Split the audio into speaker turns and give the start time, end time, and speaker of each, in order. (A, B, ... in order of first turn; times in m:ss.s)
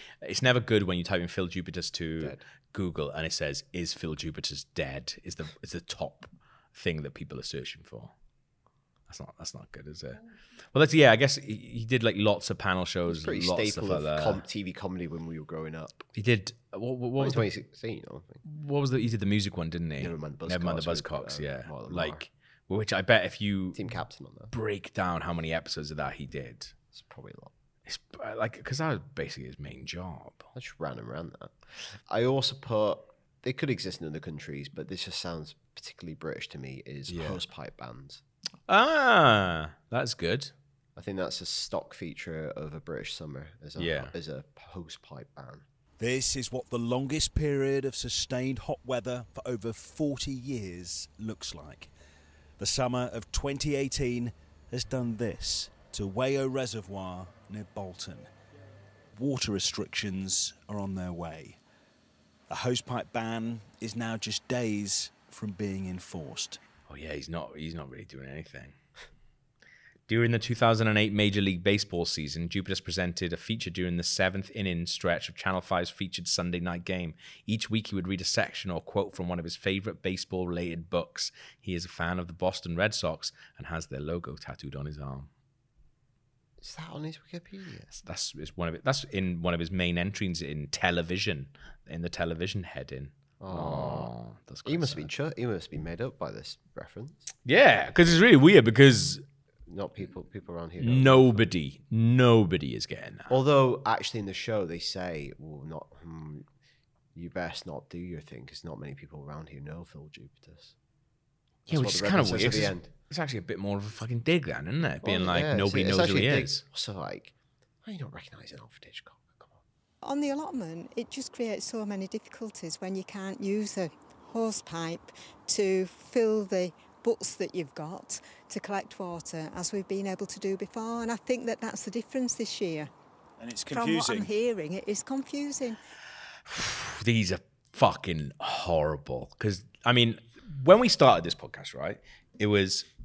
0:00.2-0:08.1 A
0:09.1-0:10.2 A
0:10.7-0:14.4 A
0:13.1-0:16.1 B
0:16.2-0:17.5 A
0:17.2-0:18.4 B
0:18.4-0:23.9 A
0:20.0-0:22.2 B
0:23.8-0:24.5 B
0:24.5-0:26.7 A
0:26.9-0:27.5 B
0:27.9-0:30.5 A
0:30.6-0:31.5 B
0:32.1-0:38.2 B
0:37.1-0:37.4 A
0:38.7-0:40.5 A
0:41.0-0:45.6 B
0:43.8-0:44.1 A
0:46.0-0:51.9 C
0:52.6-0:58.3 C
0:59.1-1:01.6 C
1:02.5-1:06.6 C
1:06.9-1:08.8 A
1:10.1-1:25.3 A
1:26.6-1:27.9 B
1:28.0-1:35.1 A
1:33.4-1:34.1 B
1:34.6-1:37.3 B
1:37.5-1:39.2 A
1:39.7-1:41.4 B
1:40.8-1:43.4 A
1:43.3-1:46.5 B
1:47.2-1:50.7 B
1:51.7-1:56.6 A
1:51.7-1:52.9 B
1:55.0-1:57.3 B
1:57.8-1:59.6 B
2:00.0-2:12.9 D
2:13.4-2:14.3 C
2:13.7-2:15.8 D
2:16.5-2:22.9 A